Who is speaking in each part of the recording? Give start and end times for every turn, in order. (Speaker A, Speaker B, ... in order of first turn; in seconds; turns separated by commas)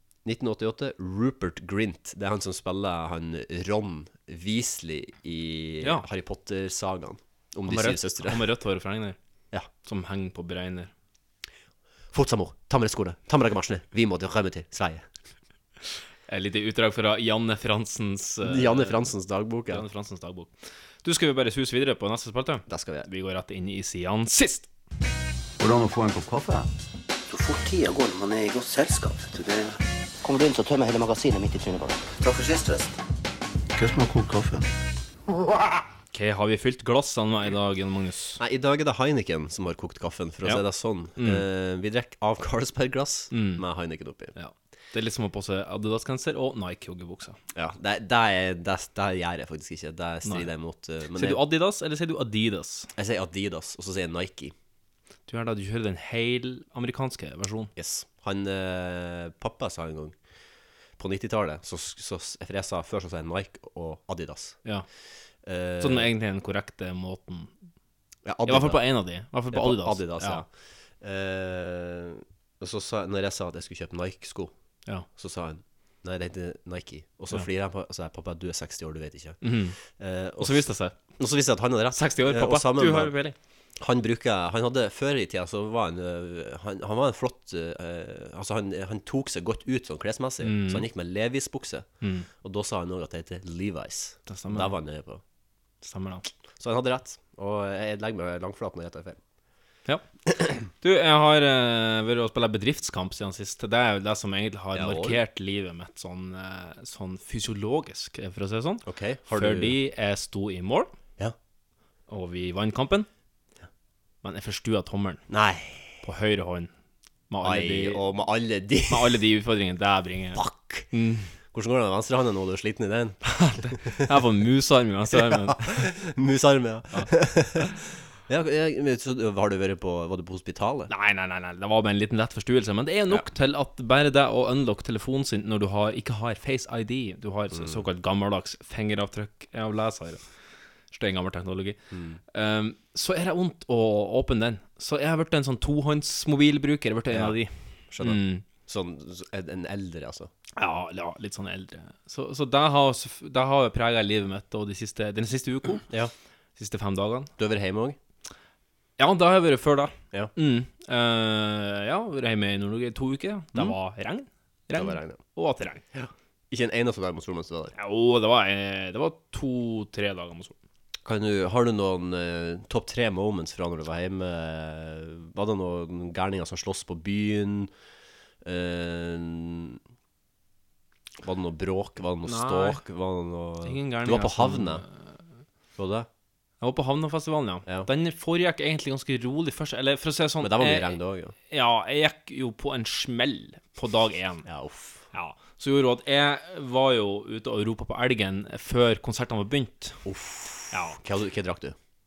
Speaker A: 0.2-8.4, Speaker B: 7.7-9.2, Speaker B: 9.8-10.9, Speaker A: 12.1-15.1, Speaker B: 16.3-19.0, Speaker A: 18.4-19.8, Speaker B: 19.7-20.5, Speaker B: 21.0-24.7, Speaker A: 22.7-23.1, Speaker C: 25.6-26.7, Speaker D: 27.3-33.0, Speaker C: 33.8-34.7, Speaker B: 36.1-38.4, Speaker A: 38.4-44.3, Speaker B: 41.2-41.4, Speaker B: 43.3-43.6, Speaker B: 44.4-47.4, Speaker A: 47.5-51.4, Speaker B: 51.1-52.9, Speaker A: 53.0-54.5, Speaker B: 55.3-57.7, Speaker A: 57.8-60.1, Speaker A: 61.0-64.6, Speaker A: 65.4-66.1, Speaker B: 65.8-67.5, Speaker A: 68.2-68.8, Speaker B: 68.5-70.4, Speaker A: 69.5-70.5, Speaker A: 71.0-74.5, Speaker A: 75.2-80.6, Speaker B: 79.4-79.8, Speaker B: 80.4-81.0, Speaker A: 81.2-83.1, Speaker B: 82.0-83.4, Speaker A: 83.8-91.9, Speaker B: 90.4-90.9, Speaker B: 92.0-92.3, Speaker A: 92.4-95.2, Speaker B: 94.3-94.7, Speaker B: 95.8-96.3, Speaker A: 96.6-99.2, Speaker B: 100.6-110.9, Speaker A: 104.7-105.2, Speaker A: 108.8-109.8, Speaker B: 112.1-113.1, Speaker B: 114.2-115.2, Speaker A: 115.3-116.0, Speaker B: 116.0-116.7, Speaker B: 117.3-118.0, Speaker A: 117.4-119.2, Speaker B: 118.9-121.3, Speaker A: 120.3-120.9, Speaker A: 121.5-124.1, Speaker B: 123.3-125.9, Speaker A: 125.1-130.9, Speaker B: 126.9-127.7, Speaker B: 130.9-140.2, Speaker A: 137.5-137.8, Speaker B: 140.9-141.8, Speaker A: 141.9-142.2, Speaker B: 142.3-148.5, Speaker A: 147.1-147.4, Speaker A: 147.9-150.3, Speaker B: 150.6-155.9, Speaker B: 156.6-157.3, Speaker A: 157.4-158.0, Speaker B: 159.0-165.8, Speaker A: 164.7-165.2, Speaker A: 165.9-167.8, Speaker B: 167.8-170.6, Speaker A: 171.1-177.7, Speaker A: 178.4-179.8, Speaker A: 181.2-184.8, Speaker B: 182.2-182.8, Speaker B: 183.6-185.2, Speaker A: 185.8-186.1, Speaker B: 186.6-191.0, Speaker A: 190.4-191.3, Speaker B: 191.5-194.5, Speaker A: 194.5-195.1, Speaker B: 195.1-200.0, Speaker A: 200.1-201.8, Speaker B: 200.7-201.0